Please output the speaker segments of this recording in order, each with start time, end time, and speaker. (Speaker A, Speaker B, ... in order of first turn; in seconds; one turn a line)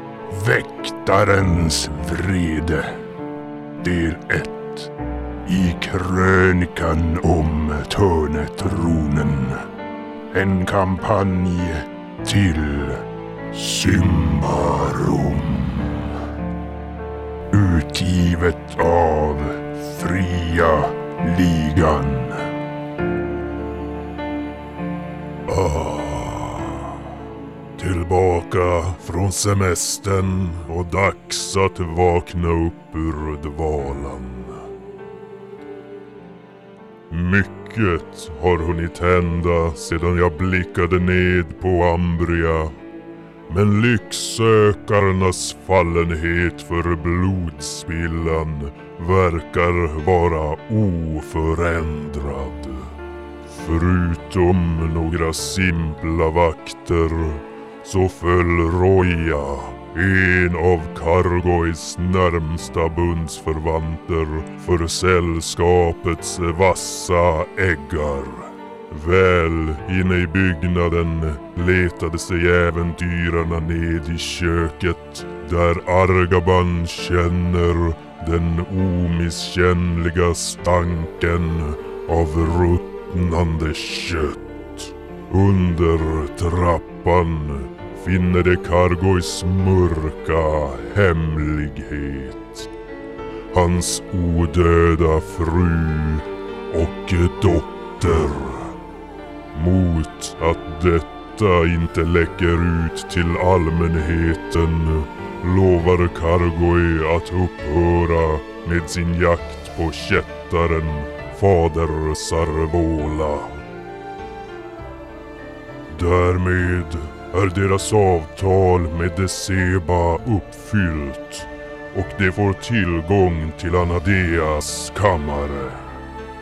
Speaker A: 0.3-2.9
Speaker A: 3.8-4.9
Speaker A: 5.5-9.6
Speaker A: 10.3-13.0
Speaker A: 13.5-16.1
Speaker A: 17.5-22.4
Speaker A: 25.5-27.0
Speaker A: 27.8-34.6
Speaker A: 37.1-42.7
Speaker A: 43.5-52.9
Speaker A: 53.5-92.7
Speaker A: 93.5-98.7
Speaker A: 99.5-113.5
Speaker A: 115.9-125.8